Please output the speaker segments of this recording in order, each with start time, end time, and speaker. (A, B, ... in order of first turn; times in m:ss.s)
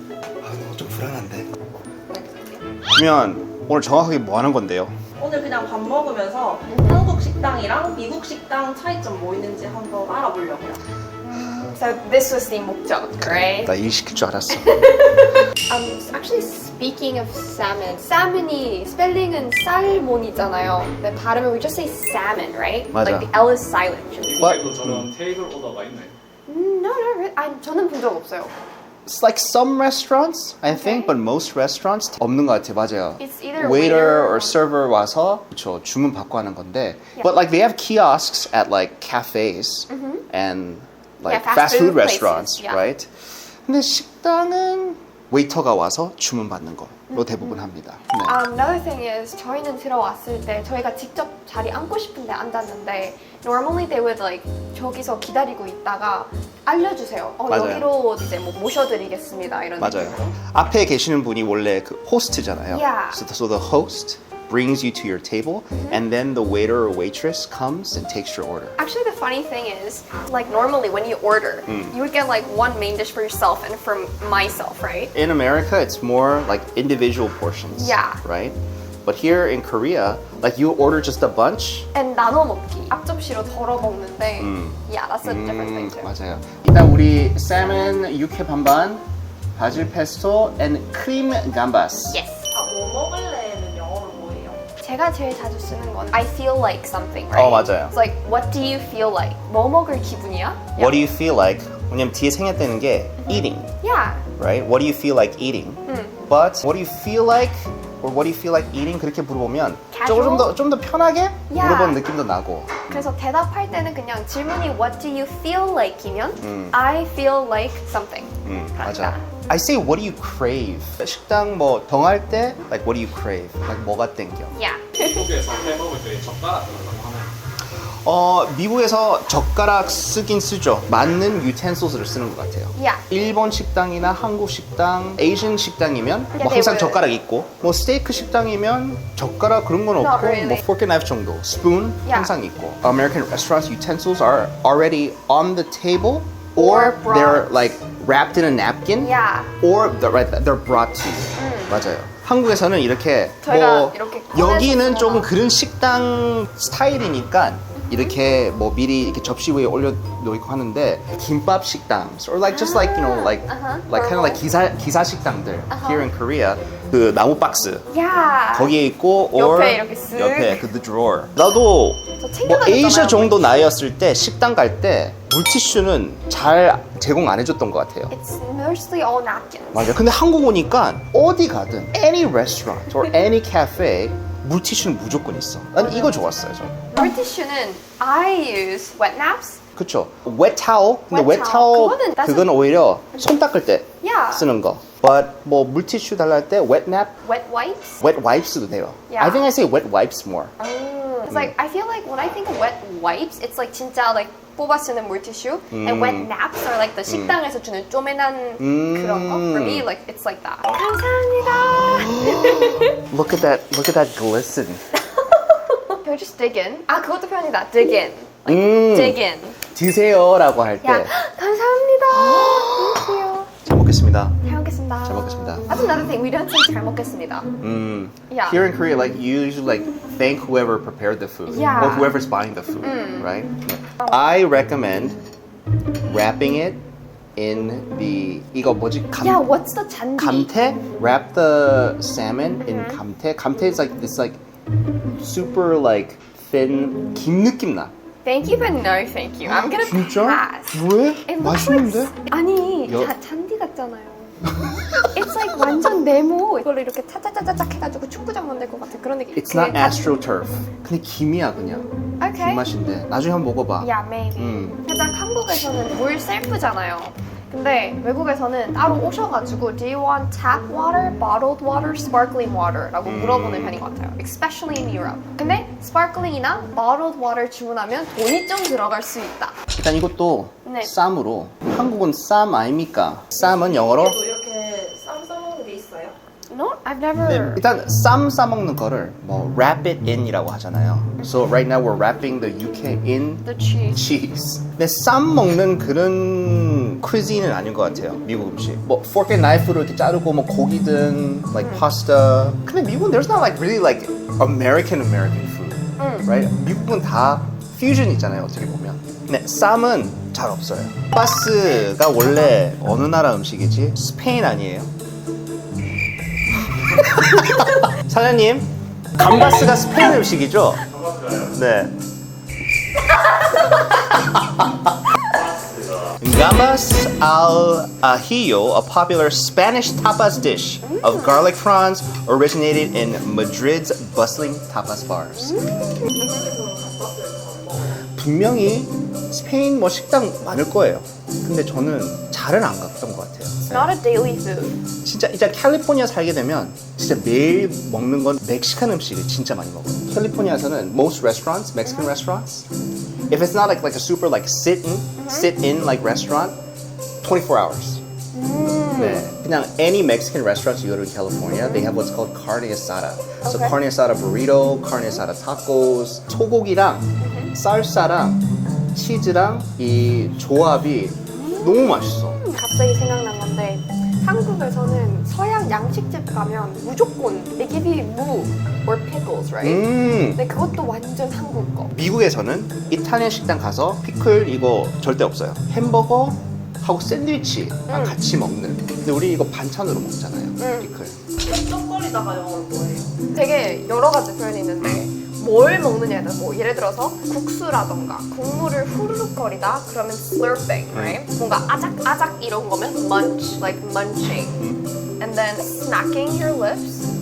0:00.4-0:01.5 A
0:02.1-0:02.6 B
0:02.9-0:05.0 A
0:05.2-0:10.8 B
0:06.7-0:07.1 C
0:11.2-0:13.7 C
0:13.2-0:15.0 A
0:14.5-0:24.4 C
0:22.9-0:23.3 A
0:24.2-0:26.2 D
0:24.4-0:25.1 A
0:26.5-0:28.5 C
0:29.1-0:43.1 A
0:30.7-0:31.1 C
0:33.2-0:34.6 C
0:39.9-0:40.3 C
0:41.3-0:42.8 C
0:43.7-0:48.4 A
0:47.1-0:47.7 C
0:48.2-1:00.3 C
0:57.5-0:57.9 A
0:59.8-1:08.8 A
1:02.7-1:03.2 C
1:08.8-1:15.1 C
1:11.7-1:12.0 A
1:15.1-1:21.9 A
1:17.7-1:18.2 C
1:21.9-1:26.1 C
1:24.4-1:29.0 A
1:29.6-1:32.2 A
1:32.1-1:32.4 C
1:32.5-1:34.7 B
1:34.8-1:41.1 C
1:37.3-1:37.9 A
1:40.8-1:43.7 A
1:43.2-1:44.3 C
1:44.4-1:53.1 A
1:45.9-1:46.2 C
1:49.9-1:50.6 C
1:51.5-1:52.0 C
1:52.9-1:59.2 C
1:56.4-1:56.8 A
1:58.4-2:04.5 A
2:04.5-2:05.7 C
2:05.0-2:07.3 D
2:08.0-2:47.9 A
2:12.8-2:13.1 C
2:16.4-2:17.0 C
2:20.0-2:20.7 C
2:22.1-2:22.4 C
2:26.6-2:27.6 C
2:29.0-2:29.5 C
2:31.4-2:31.8 C
2:33.4-2:35.3 C
2:37.8-2:38.1 C
2:42.5-2:44.4 C
2:45.7-2:46.1 C
2:47.9-2:48.8 C
2:48.6-2:58.1 A
2:49.3-2:50.7 C
2:52.2-2:53.7 C
2:58.1-3:00.0 C
2:59.7-3:06.9 A
3:05.8-3:06.3 C
3:06.9-3:09.6 C
3:09.8-3:17.2 A
3:11.1-3:12.6 C
3:14.0-3:14.5 C
3:17.2-3:18.0 C
3:18.0-3:20.5 A
3:19.1-3:19.5 C
3:20.6-3:33.0 C
3:25.7-3:26.3 A
3:27.1-3:27.4 A
3:28.6-3:29.9 A
3:32.0-3:34.8 A
3:35.4-3:39.6 C
3:38.5-3:39.2 A
3:39.7-3:41.1 A
3:40.8-3:43.5 C
3:42.1-3:44.4 A
3:44.4-3:47.5 C
3:45.0-3:45.8 A
3:47.6-3:55.2 A
3:48.3-3:48.6 C
3:51.5-3:52.2 C
3:52.8-3:53.4 C
3:56.1-3:56.8 A
3:57.4-3:59.4 A
3:59.2-4:00.5 C
4:00.2-4:04.4 A
4:02.6-4:03.0 C
4:05.1-4:07.9 A
4:08.2-4:14.5 C
4:09.5-4:12.2 A
4:12.9-4:13.1 A
4:14.6-4:15.1 A
4:15.0-4:20.2 C
4:19.4-4:24.8 A
4:22.2-4:22.6 C
4:23.8-4:39.6 C
4:33.0-4:33.8 A
4:39.8-4:44.2 A
4:40.6-4:40.9 C
4:43.4-4:46.2 B
4:46.5-4:47.6 C
4:47.2-5:14.9 A
4:51.2-4:51.4 C
4:53.4-4:54.0 C
5:01.6-5:01.9 C
5:06.0-5:06.3 C
5:16.9-5:21.9 A
5:24.3-5:24.7 A
5:26.2-5:35.6 A
5:30.8-5:31.5 C
5:35.4-5:36.5 C
5:36.0-5:38.0 B
5:38.0-5:44.0 A
5:43.7-5:44.8 C
5:45.0-5:52.7 A
5:51.8-5:52.1 C
5:53.3-5:56.6 A
5:55.2-5:55.6 C
5:57.2-5:58.0 A
5:58.3-5:59.3 C
5:58.9-6:12.4 A
6:01.6-6:01.9 C
6:03.4-6:03.8 C
6:07.2-6:07.5 C
6:11.3-6:22.0 C
6:19.6-6:20.4 A
6:21.9-6:31.2 A
6:27.9-6:28.2 C
6:30.6-6:30.9 C
6:31.4-6:33.2 B
6:33.3-6:44.7 C
6:40.9-6:41.2 A
6:45.2-6:47.1 C